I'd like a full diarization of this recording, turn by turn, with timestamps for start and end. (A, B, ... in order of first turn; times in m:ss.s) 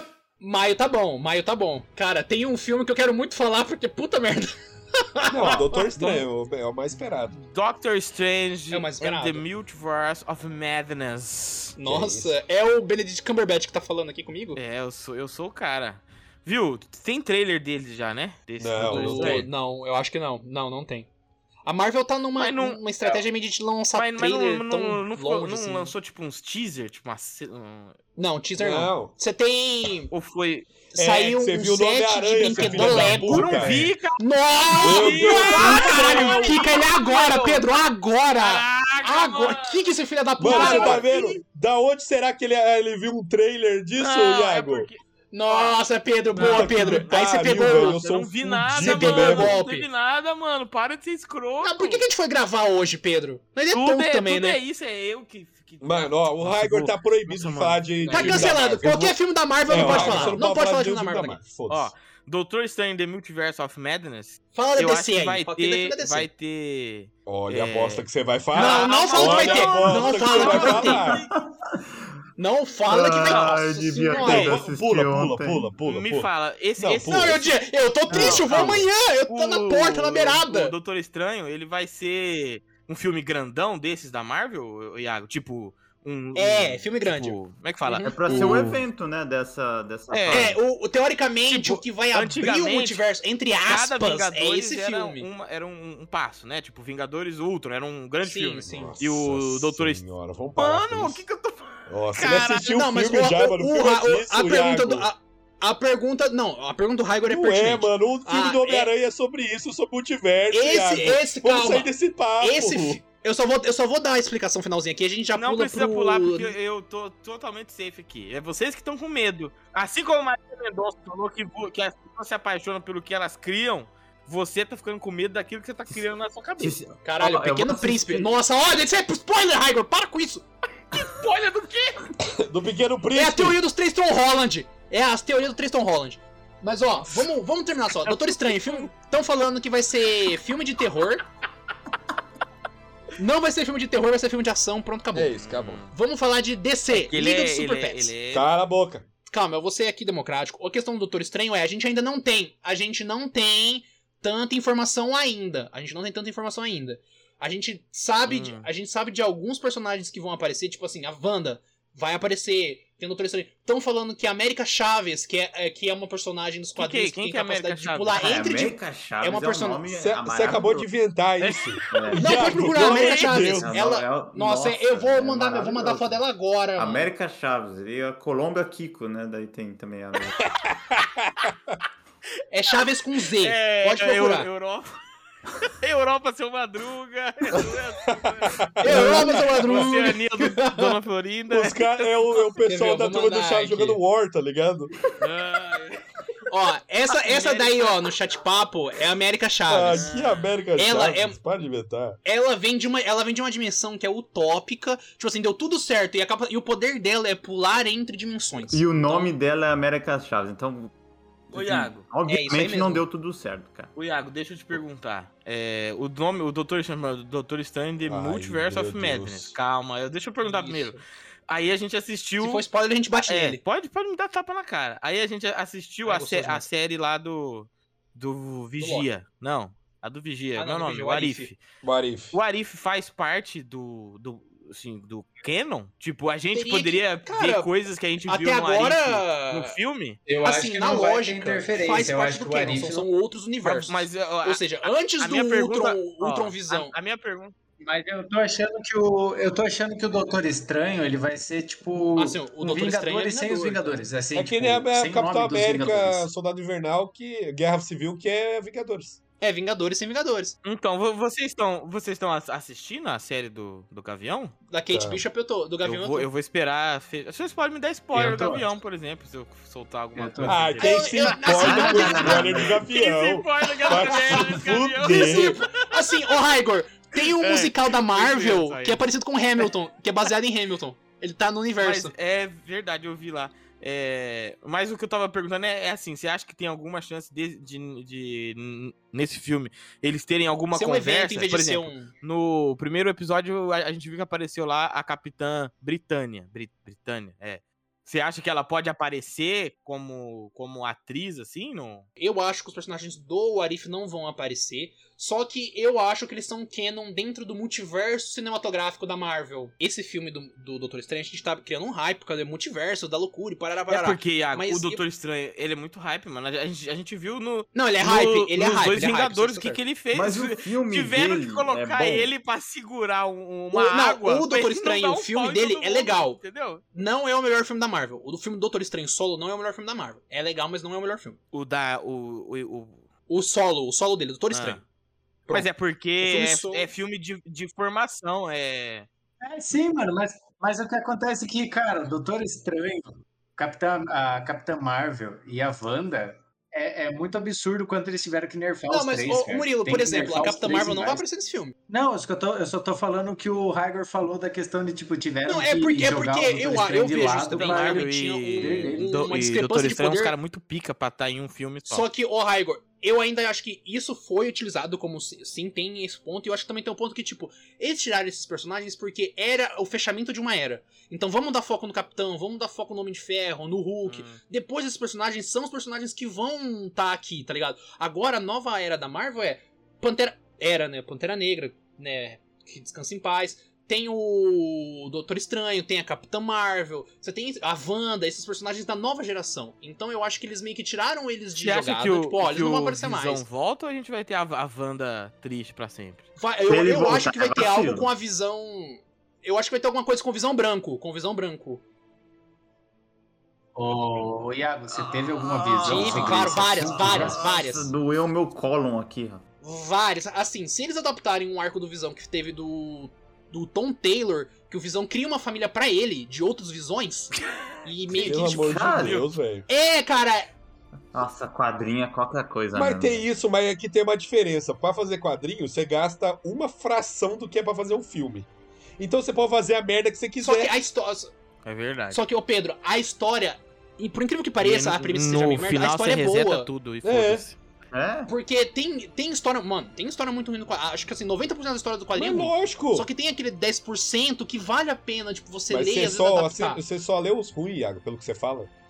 0:00.4-0:05.6 A
0:05.2-0:07.4 B
0:05.4-0:06.2 C
0:07.3-0:11.8 C
0:08.7-0:09.4 A
0:11.8-0:14.6 A
0:11.8-0:12.4 B
0:14.5-0:19.5 C
0:18.6-0:19.5 B
0:18.8-0:21.1 A
0:21.6-0:25.9 A
0:22.4-0:22.8 C
0:23.9-0:28.0 C
0:28.2-0:30.1 A
0:28.6-0:29.1 B
0:30.1-0:30.7 C
0:30.9-0:41.3 A
0:30.9-0:33.9 B
0:32.4-0:37.6 C
0:34.8-0:36.6 B
0:38.4-0:39.9 C
0:40.4-0:44.9 B
0:40.5-0:41.2 C
0:44.0-0:52.1 C
0:45.3-0:48.0 A
0:46.4-0:49.5 B
0:48.8-0:49.9 A
0:51.6-0:54.6 A
0:53.7-0:59.1 C
0:55.8-0:59.1 B
0:58.1-1:01.4 A
0:59.7-1:01.9 B
0:59.7-1:00.4 C
1:01.7-1:11.3 C
1:04.5-1:06.3 A
1:07.2-1:11.2 B
1:08.5-1:11.2 A
1:11.4-1:12.0 D
1:12.4-1:14.6 A
1:12.9-1:15.7 D
1:13.2-1:13.6 C
1:14.2-1:14.6 C
1:14.2-1:17.4 B
1:15.8-1:17.6 C
1:17.1-1:20.7 A
1:18.1-1:18.8 D
1:18.1-1:28.8 C
1:26.3-1:28.7 A
1:28.0-1:30.6 D
1:30.1-1:30.5 C
1:30.3-1:35.3 A
1:31.5-1:33.0 C
1:33.6-1:40.0 C
1:38.2-1:38.9 A
1:38.6-1:41.2 B
1:40.6-1:42.6 C
1:41.9-1:45.1 B
1:42.3-1:48.9 A
1:47.2-1:53.0 B
1:50.5-1:56.5 A
1:55.3-2:06.8 C
2:06.6-2:08.3 D
2:07.0-2:10.4 A
2:10.9-2:12.1 C
2:12.2-2:13.6 B
2:13.1-2:21.2 A
2:17.9-2:18.9 C
2:23.2-2:25.4 A
2:25.1-2:25.8 B
2:25.4-2:25.9 C
2:25.9-2:28.1 A
2:26.9-2:28.5 C
2:28.3-2:29.1 B
2:29.3-2:49.8 A
2:38.2-2:38.7 C
2:46.8-2:48.2 C
2:48.1-2:50.9 D
2:49.9-2:53.8 B
2:51.4-2:52.2 C
2:51.9-2:52.5 D
2:52.2-2:57.1 A
2:52.8-2:53.3 C
2:53.4-2:56.2 D
2:56.8-3:00.5 D
3:00.9-3:01.8 B
3:02.5-3:04.5 A
3:03.4-3:05.0 C
3:05.6-3:12.4 C
3:08.1-3:09.9 B
3:08.8-3:11.0 A
3:11.5-3:14.9 B
3:12.6-3:14.0 A
3:15.2-3:16.0 C
3:16.5-3:20.1 A
3:17.1-3:18.1 C
3:19.7-3:22.2 B
3:19.9-3:20.6 C
3:20.8-3:21.4 A
3:22.2-3:29.3 A
3:28.7-3:30.9 D
3:31.5-3:32.0 C
3:31.5-3:33.9 D
3:32.2-3:33.0 A
3:33.9-3:51.6 C
3:38.0-3:39.6 B
3:40.4-3:41.0 A
3:42.4-3:43.6 A
3:46.0-3:46.7 A
3:48.8-3:49.1 A
3:50.6-3:51.5 A
3:51.8-3:52.4 B
3:52.3-4:00.2 C
3:56.5-3:57.7 A
3:58.3-3:59.8 A
4:00.3-4:03.1 E
4:00.4-4:06.9 A
4:03.6-4:07.5 C
4:07.8-4:16.3 E
4:12.2-4:14.0 A
4:14.3-4:19.2 B
4:19.4-4:20.6 A
4:20.6-4:24.5 C
4:24.7-4:26.3 A
4:24.9-4:25.2 B
4:25.8-4:36.2 C
4:28.1-4:28.7 E
4:30.1-4:30.7 E
4:30.4-4:35.6 B
4:30.8-4:32.5 A
4:31.5-4:32.8 D
4:33.8-4:42.1 A
4:37.2-4:39.0 C
4:41.8-5:02.1 C
4:50.7-4:52.1 A
5:02.2-5:15.0 A
5:13.9-5:26.8 C
5:17.7-5:19.8 A
5:20.1-5:22.3 D
5:23.7-5:26.4 A
5:26.9-5:31.4 A
5:31.5-5:33.1 C
5:33.3-5:34.8 A
5:34.5-5:34.8 C
5:35.5-5:36.9 A
5:35.5-5:39.1 C
5:39.4-5:51.2 E
5:48.9-5:51.7 A
5:51.9-5:59.3 E
5:55.5-6:00.4 A
5:57.0-6:02.1 C
6:01.9-6:33.4 A
6:14.0-6:14.4 C
6:31.6-6:36.2 C
6:36.4-6:41.8 A
6:36.6-6:38.1 D
6:43.8-6:47.5 E
6:44.9-6:49.4 D
6:45.8-6:47.9 A
6:49.6-6:58.9 A
6:57.5-6:57.8 C
6:58.2-6:59.7 B
6:58.2-6:59.2 D
6:59.0-6:59.3 C
6:59.7-7:00.5 A
7:01.1-7:03.3 D
7:02.7-7:08.5 B
7:09.0-7:10.8 B
7:10.4-7:11.3 A
7:11.6-7:12.2 C
7:12.1-7:16.7 A
7:14.6-7:17.6 C
7:17.0-7:17.4 B
7:17.9-7:18.3 D
7:18.3-7:26.8 A
7:22.1-7:23.1 B
7:25.7-7:28.7 B